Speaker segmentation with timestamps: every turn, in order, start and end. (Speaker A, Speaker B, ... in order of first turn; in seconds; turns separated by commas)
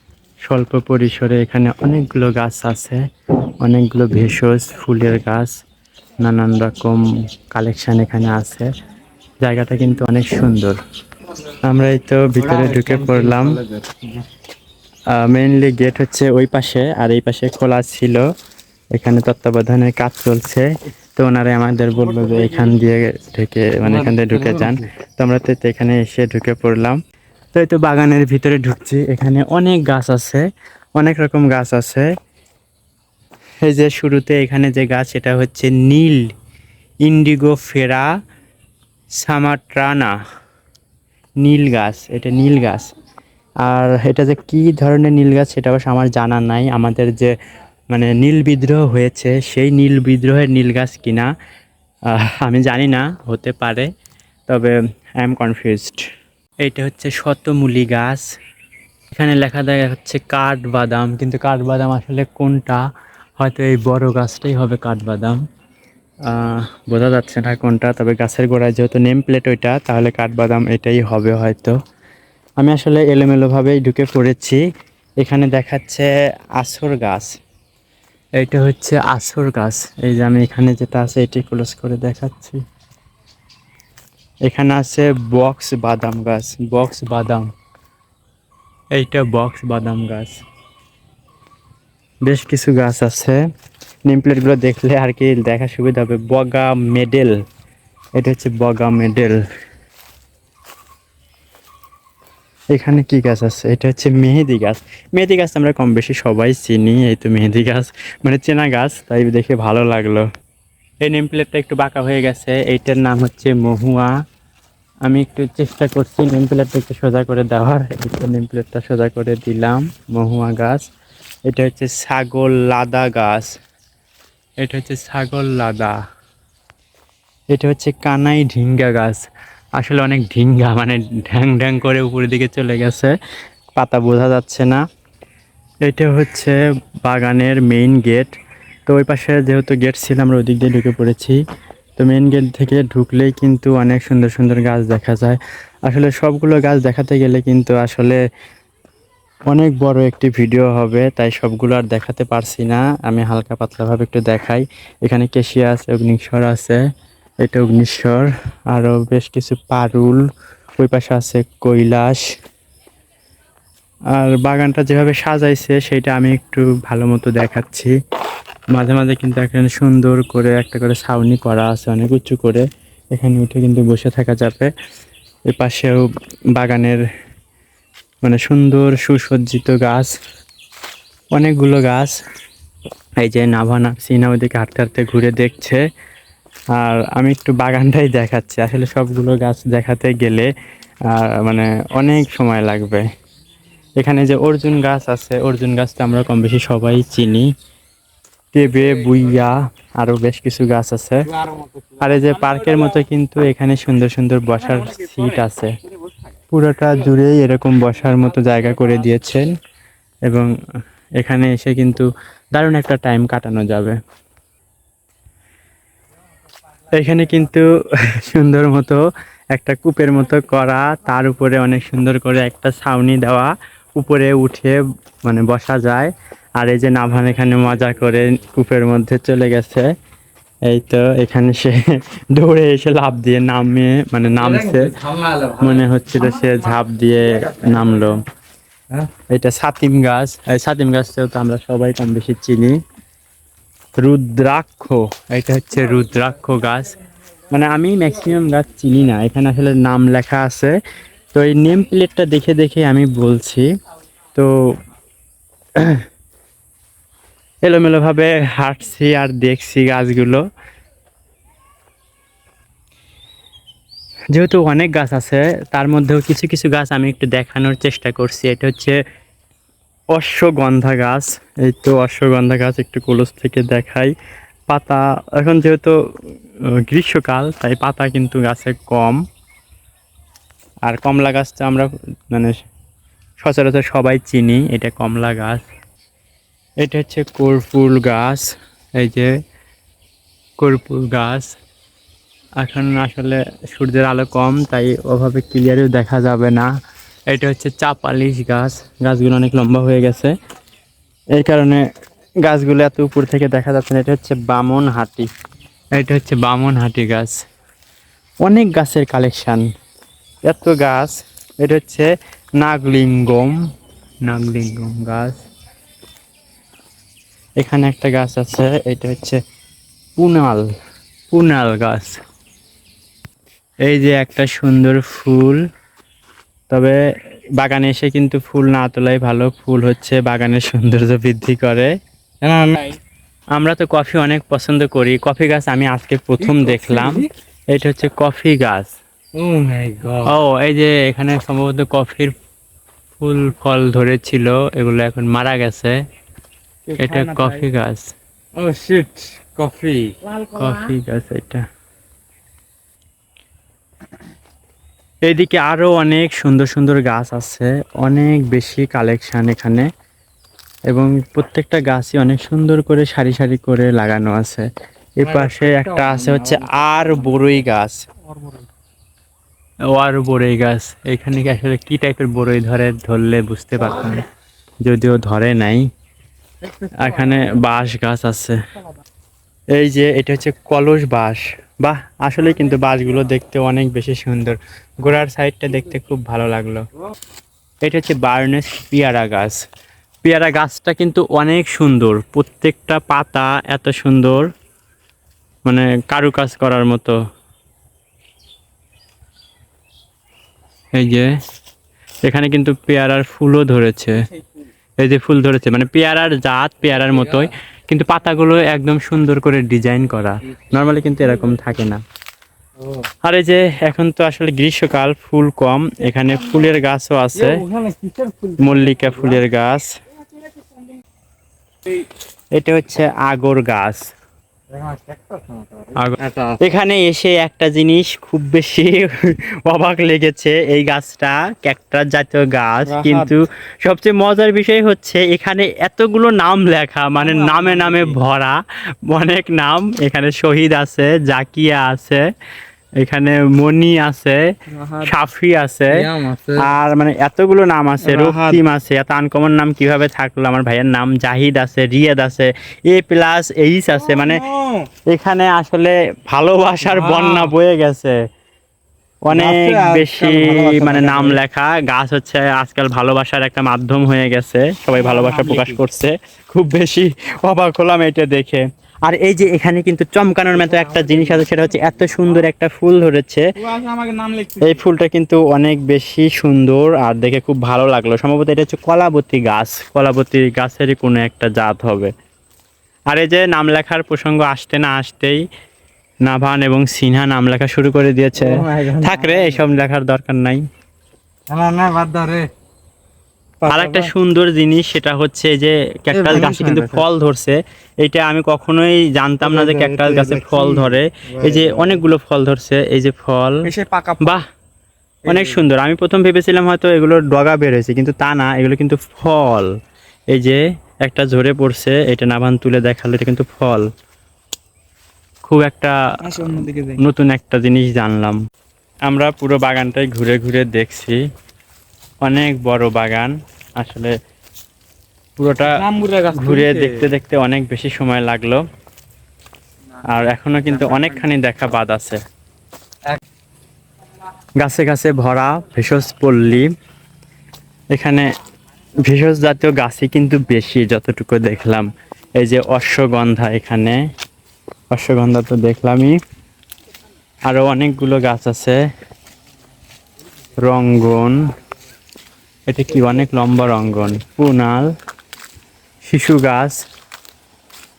Speaker A: 0.5-3.0, Speaker A: 3.6-5.5, Speaker A: 6.2-8.7, Speaker A: 9.4-10.8, Speaker A: 11.7-13.6, Speaker B: 12.4-14.0, Speaker A: 15.2-18.2, Speaker A: 18.9-27.0, Speaker B: 23.9-24.7, Speaker A: 27.5-30.4, Speaker A: 31.0-32.1, Speaker A: 33.6-36.2, Speaker A: 37.0-38.1, Speaker A: 39.2-40.1, Speaker A: 41.4-42.9, Speaker A: 43.6-47.3, Speaker A: 47.9-51.3, Speaker A: 52.2-53.9, Speaker A: 54.5-56.0, Speaker A: 56.6-58.2, Speaker A: 59.1-62.8, Speaker A: 63.4-65.4, Speaker A: 66.3-71.7, Speaker A: 72.6-74.6, Speaker A: 75.2-76.1, Speaker A: 76.6-77.3, Speaker A: 78.4-82.6, Speaker A: 84.5-87.5, Speaker A: 88.9-90.4, Speaker A: 92.2-93.4, Speaker A: 94.1-97.3, Speaker A: 98.2-99.4, Speaker A: 102.7-110.2, Speaker A: 111.0-114.1, Speaker A: 115.1-120.8, Speaker A: 121.5-123.5, Speaker A: 124.6-126.0, Speaker A: 127.5-129.2, Speaker A: 129.8-133.1, Speaker A: 133.8-134.8, Speaker A: 135.8-138.3, Speaker A: 138.9-141.4, Speaker A: 142.0-148.2, Speaker A: 149.5-156.8, Speaker A: 157.4-160.2, Speaker A: 160.8-162.2, Speaker A: 164.2-167.9, Speaker A: 168.7-174.7, Speaker A: 175.5-176.1, Speaker A: 176.6-177.0, Speaker A: 178.2-180.1, Speaker A: 181.3-182.1, Speaker A: 183.2-185.8, Speaker A: 186.8-190.5, Speaker A: 191.1-193.1, Speaker A: 194.0-197.5, Speaker A: 198.5-201.3, Speaker A: 202.0-205.7, Speaker A: 206.5-209.5, Speaker A: 211.2-213.9, Speaker A: 217.0-217.6, Speaker A: 218.2-219.0, Speaker A: 219.5-229.9, Speaker A: 230.7-231.8, Speaker A: 232.3-234.9, Speaker B: 234.4-235.7, Speaker A: 235.6-238.2, Speaker A: 239.3-242.8, Speaker A: 244.0-246.9, Speaker A: 247.5-250.7, Speaker A: 251.3-253.7, Speaker A: 257.6-260.4, Speaker A: 264.3-269.0, Speaker A: 270.1-274.1, Speaker A: 274.7-275.9, Speaker A: 276.8-279.2, Speaker A: 280.9-282.5, Speaker A: 283.4-285.6, Speaker A: 286.8-288.4, Speaker A: 289.0-289.3, Speaker A: 290.6-291.5, Speaker A: 292.6-296.7, Speaker A: 297.3-300.3, Speaker A: 301.4-301.8, Speaker A: 302.4-305.3, Speaker A: 305.9-307.4, Speaker A: 308.4-309.6, Speaker A: 310.5-312.1, Speaker A: 312.6-313.6, Speaker A: 314.2-315.4, Speaker A: 317.6-319.4, Speaker A: 320.2-320.6, Speaker A: 321.3-322.2, Speaker A: 323.9-325.6, Speaker A: 326.7-327.0, Speaker A: 327.6-331.9, Speaker B: 332.4-333.0, Speaker A: 333.6-338.9, Speaker B: 336.4-337.3, Speaker B: 339.4-340.3, Speaker A: 340.2-342.3, Speaker A: 343.2-346.0, Speaker B: 346.9-347.6, Speaker A: 347.0-348.1, Speaker B: 348.6-350.9, Speaker A: 350.6-351.6, Speaker A: 355.3-359.9, Speaker A: 360.9-364.6, Speaker A: 365.2-368.0, Speaker B: 365.2-366.7, Speaker B: 368.3-368.6, Speaker A: 369.9-374.2, Speaker A: 374.8-375.9, Speaker B: 376.8-377.1, Speaker A: 377.0-378.6, Speaker A: 379.7-386.8, Speaker A: 387.8-389.6, Speaker A: 390.2-394.5, Speaker A: 395.7-397.1, Speaker A: 400.9-401.3, Speaker A: 402.2-404.2, Speaker A: 405.0-412.0, Speaker A: 413.2-417.5, Speaker B: 417.4-419.4, Speaker A: 418.6-419.9, Speaker A: 422.6-424.0, Speaker B: 424.7-426.6, Speaker A: 425.9-438.6, Speaker B: 432.9-433.3, Speaker B: 437.2-438.2, Speaker A: 439.1-442.2, Speaker A: 443.0-444.4, Speaker B: 444.7-445.1, Speaker A: 445.1-446.1, Speaker B: 445.9-446.7, Speaker A: 446.6-454.4, Speaker B: 448.0-448.6, Speaker B: 454.1-454.9, Speaker A: 455.1-458.2, Speaker B: 456.9-457.5, Speaker A: 459.3-473.4, Speaker B: 459.3-461.4, Speaker B: 465.0-465.8, Speaker B: 470.7-471.5, Speaker B: 473.7-474.8, Speaker A: 474.6-482.1, Speaker A: 483.1-485.4, Speaker A: 486.3-490.6, Speaker B: 488.4-489.6, Speaker B: 491.5-492.5, Speaker B: 493.6-494.1, Speaker A: 493.7-503.7, Speaker B: 496.1-497.0, Speaker B: 499.4-502.0, Speaker B: 503.6-504.4, Speaker B: 505.3-505.6, Speaker A: 505.3-509.7, Speaker A: 510.3-513.9, Speaker A: 515.5-516.0, Speaker B: 516.2-517.0, Speaker A: 517.0-518.4, Speaker A: 519.1-521.2, Speaker A: 522.2-524.1, Speaker A: 525.4-525.8, Speaker B: 525.6-527.1, Speaker A: 526.3-528.6, Speaker A: 530.1-532.2, Speaker B: 530.7-531.2, Speaker A: 534.6-536.7, Speaker A: 537.9-538.2, Speaker A: 539.0-541.9, Speaker A: 542.4-544.0, Speaker A: 544.9-546.2, Speaker A: 547.5-548.8, Speaker A: 550.6-551.4, Speaker A: 552.7-554.9, Speaker A: 556.0-556.8